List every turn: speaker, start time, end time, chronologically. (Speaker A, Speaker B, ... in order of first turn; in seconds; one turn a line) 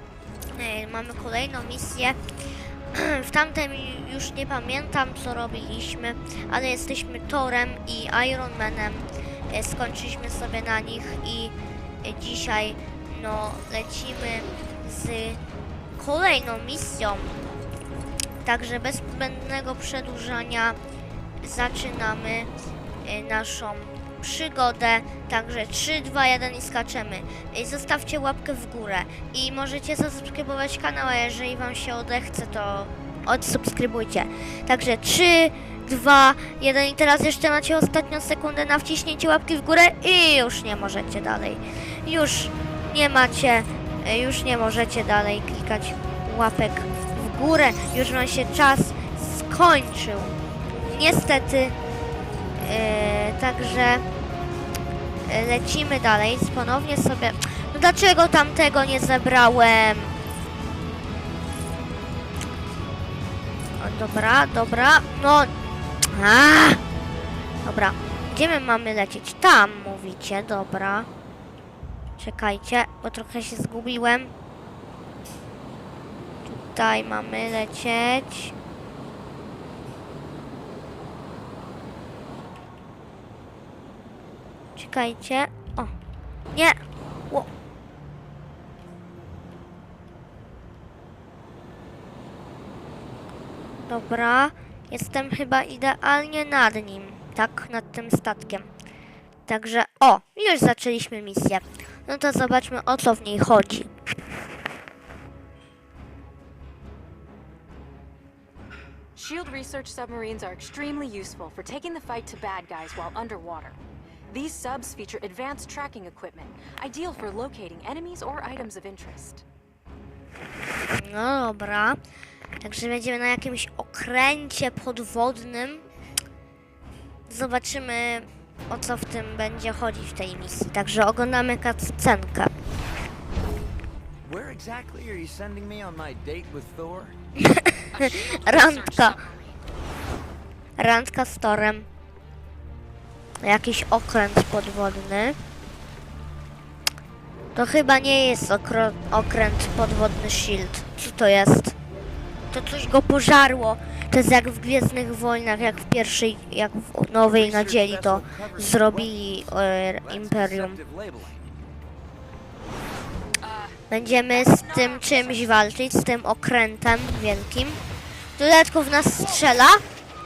Speaker A: 0.5-2.2
Speaker A: 2.9-15.4
Speaker A: 16.0-17.4
Speaker A: 18.4-20.8
Speaker A: 21.4-22.5
Speaker A: 23.0-51.8
Speaker A: 52.6-54.0
Speaker A: 55.3-60.1
Speaker A: 63.8-65.5
Speaker A: 66.1-66.8
Speaker A: 67.6-71.1
Speaker A: 72.2-74.3
Speaker A: 76.5-78.5
Speaker A: 84.8-85.9
Speaker A: 86.5-87.5
Speaker A: 93.9-98.7
Speaker A: 99.5-103.9
Speaker B: 109.1-113.8
Speaker B: 114.3-119.4
Speaker A: 120.9-122.0
Speaker A: 122.6-125.8
Speaker A: 127.3-132.5
Speaker C: 134.2-137.2
Speaker A: 137.4-139.2
Speaker B: 137.9-139.6
Speaker A: 140.8-141.9
Speaker A: 143.4-145.4
Speaker A: 147.6-151.8
Speaker A: 152.5-160.8
Speaker C: 157.3-159.2
Speaker C: 160.0-161.7
Speaker B: 163.4-163.8
Speaker A: 163.9-167.8
Speaker B: 164.3-165.5
Speaker A: 168.4-169.8